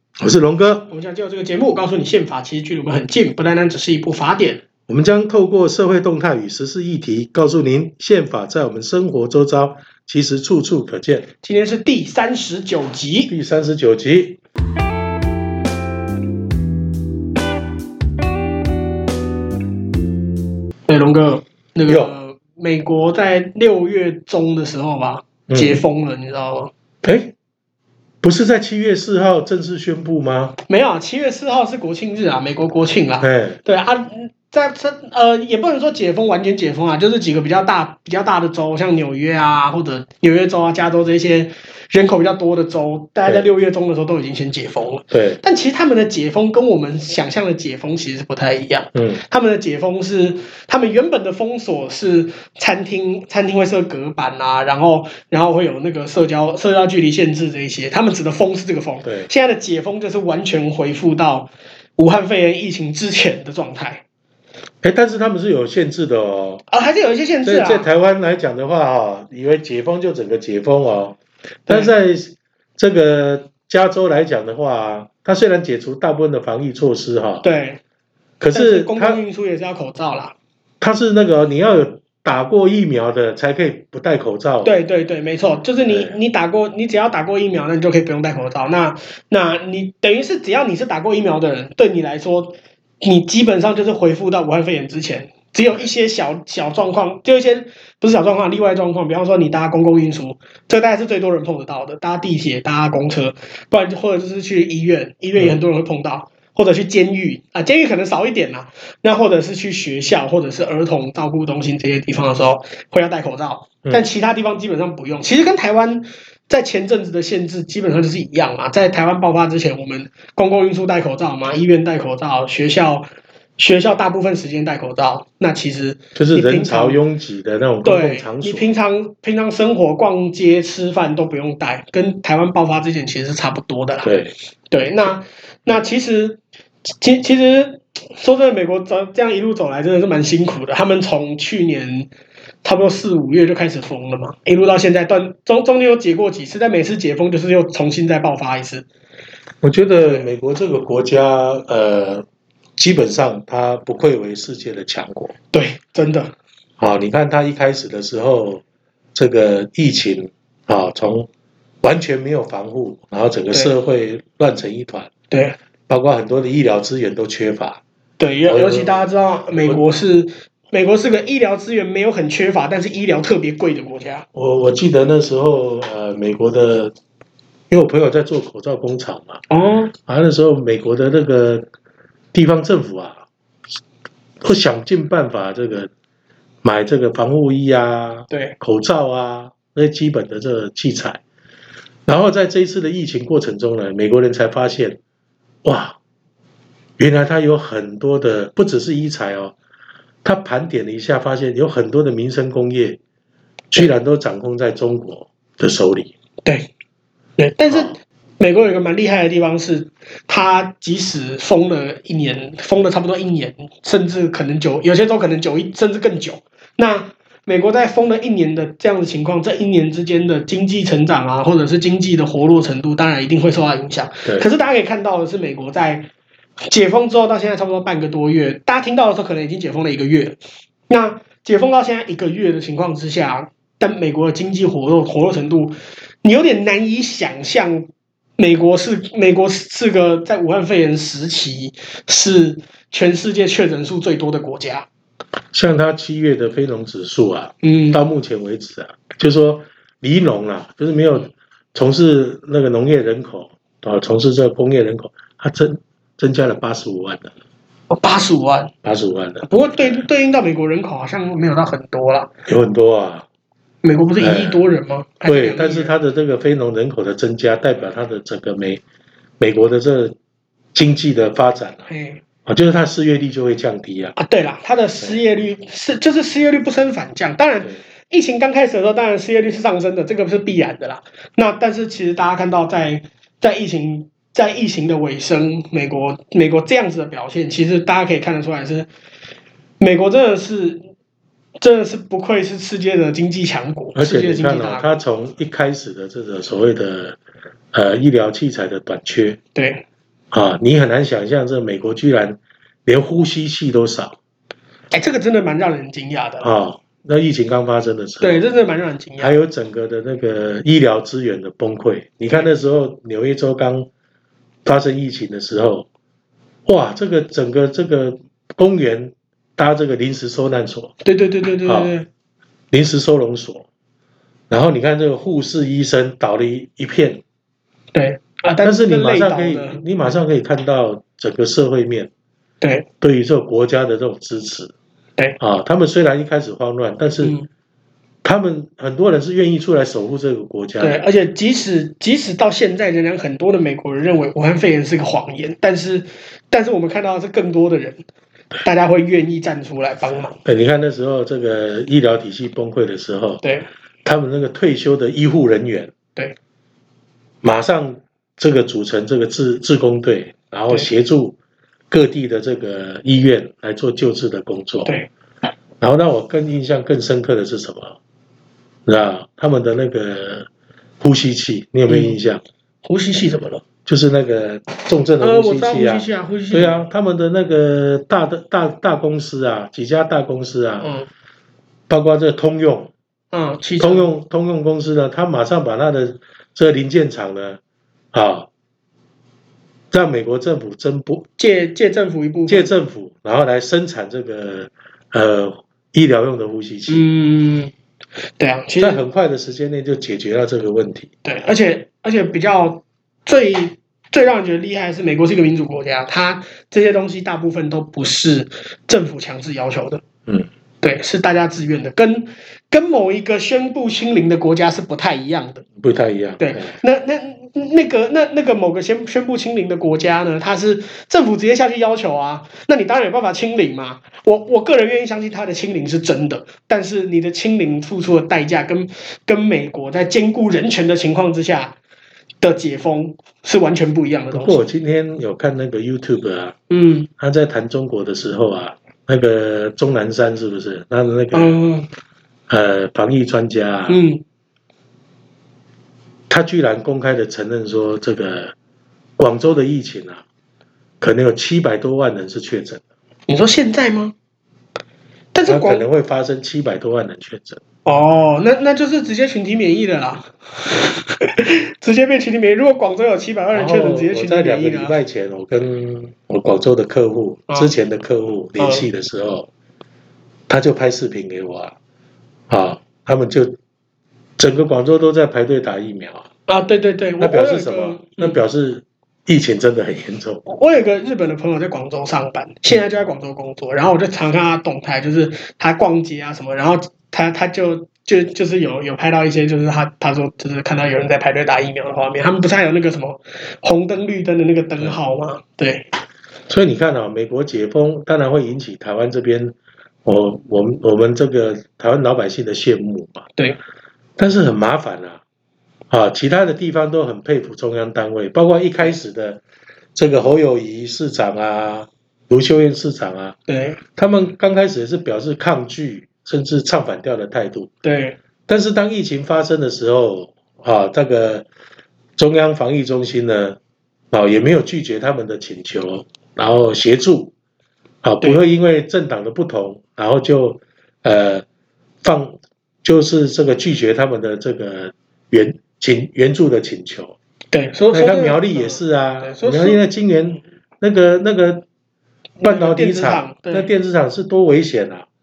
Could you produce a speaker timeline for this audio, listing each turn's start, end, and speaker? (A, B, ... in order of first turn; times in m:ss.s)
0:00.2-0:00.9 A
0:00.9-0:04.6 B
0:04.9-0:11.3 A
0:11.4-0:13.3 B
0:13.3-0:14.4 A
0:20.9-0:26.7 B
0:21.9-0:22.1 A
0:25.5-0:25.8 A
0:27.0-0:27.3 A
0:28.2-0:30.6 A
0:30.7-1:04.0 B
0:33.2-0:33.6 A
0:45.1-0:45.4 A
0:48.9-0:49.2 A
1:04.8-1:06.6 A
1:06.7-1:07.9 B
1:07.4-1:17.4 A
1:11.7-1:11.9 B
1:17.4-1:17.8 B
1:18.4-1:19.2 A
1:18.5-1:20.3 B
1:20.8-1:24.7 A
1:24.6-2:03.1 B
1:25.9-1:26.1 A
2:03.6-2:07.0 B
2:06.2-2:08.7 A
2:07.8-2:14.1 B
2:14.0-2:14.3 A
2:14.7-2:16.4 B
2:17.0-2:22.1 B
2:22.6-2:28.8 B
2:29.6-2:32.2 A
2:32.8-2:35.3 A
2:35.5-2:36.3 B
2:36.8-2:38.6 A
2:39.1-2:41.3 A
2:41.8-2:45.1 A
2:45.3-2:45.6 B
2:45.9-2:47.8 A
2:48.2-2:54.2 B
2:48.5-2:49.8 A
2:54.3-2:56.9 A
2:57.7-2:59.4 A
2:59.5-2:59.9 B
3:00.0-3:01.6 A
3:02.3-3:03.2 A
3:04.4-3:05.9 A
3:06.6-3:11.2 A
3:08.3-3:08.6 B
3:12.1-3:15.0 A
3:15.6-3:16.0 A
3:17.0-3:19.5 A
3:20.2-3:23.0 A
3:23.7-3:26.1 A
3:27.4-3:46.1 B
3:46.7-3:50.4 B
3:50.9-4:04.9 B
4:05.5-4:17.3 A
4:07.6-4:08.0 B
4:17.9-4:18.7 B
4:18.8-4:20.0 A
4:19.4-4:22.3 B
4:22.5-4:23.2 A
4:23.8-4:25.9 B
4:24.2-4:24.7 A
4:25.2-4:28.8 A
4:29.4-4:30.2 A
4:30.7-4:31.9 A
4:31.9-4:32.2 B
4:32.4-4:34.1 A
4:34.2-4:48.9 B
4:49.8-4:50.9 B
4:51.6-4:55.0 B
4:53.9-4:57.2 A
4:57.7-4:59.4 A
4:59.5-4:59.8 B
5:00.3-5:04.2 A
5:04.9-5:06.5 B
5:06.4-5:08.4 A
5:08.2-5:09.3 B
5:09.2-5:13.9 A
5:14.6-5:15.9 A
5:16.6-5:20.9 A
5:21.0-5:22.0 B
5:21.6-5:21.9 A
5:22.7-5:23.7 A
5:24.5-5:27.2 A
5:27.9-5:29.8 B
5:28.6-5:32.1 A
5:32.6-5:32.9 B
5:33.0-5:34.7 A
5:35.4-5:37.4 A
5:38.2-5:41.0 A
5:40.8-5:48.0 B
5:48.6-5:50.4 B
5:50.4-5:53.4 A
5:53.4-5:53.7 B
5:54.0-5:55.9 A
5:57.4-6:01.4 A
6:01.9-6:05.0 A
6:05.8-6:08.0 A
6:08.8-6:10.5 A
6:11.0-6:12.4 A
6:11.9-6:12.2 B
6:12.8-6:13.6 B
6:13.8-6:20.9 A
6:15.2-6:16.9 B
6:20.8-6:21.1 B
6:21.9-6:22.9 A
6:23.3-6:24.1 B
6:23.8-6:27.6 A
6:28.1-6:28.5 A
6:29.9-6:31.2 A
6:31.4-6:32.7 B
6:32.5-6:37.0 A
6:36.9-6:37.7 B
6:38.4-6:39.0 B
6:38.8-6:41.1 A
6:41.2-6:50.0 B
6:50.8-6:55.6 B
6:55.8-6:56.7 A
6:56.4-7:11.7 B
7:12.4-7:14.6 B
7:14.3-7:16.6 A
7:16.7-7:17.1 B
7:17.2-7:21.6 A
7:21.3-7:21.9 B
7:22.5-7:24.0 A
7:23.9-7:24.2 B
7:26.3-7:28.5 A
7:29.2-7:30.2 A
7:31.0-7:32.8 A
7:33.3-7:34.1 B
7:35.3-7:35.8 B
7:35.4-7:37.6 A
7:37.8-7:45.0 B
7:43.5-7:49.5 A
7:48.6-7:48.8 B
7:50.5-7:51.7 A
7:52.5-7:53.6 A
7:54.4-7:56.2 A
7:56.5-7:58.4 B
7:57.2-8:00.4 A
8:00.4-8:15.9 B
8:16.5-8:23.2 A
8:24.2-8:25.2 A
8:25.9-8:29.4 A
8:29.9-8:33.4 A
8:33.5-8:33.8 B
8:34.0-8:37.7 A
8:37.8-8:38.2 B
8:38.5-8:41.4 A
8:42.2-8:43.6 A
8:44.1-8:47.3 A
8:48.0-8:51.4 A
8:52.0-8:57.1 A
8:57.5-8:59.8 B
8:57.9-9:01.6 A
9:02.4-9:03.7 B
9:02.4-9:05.0 A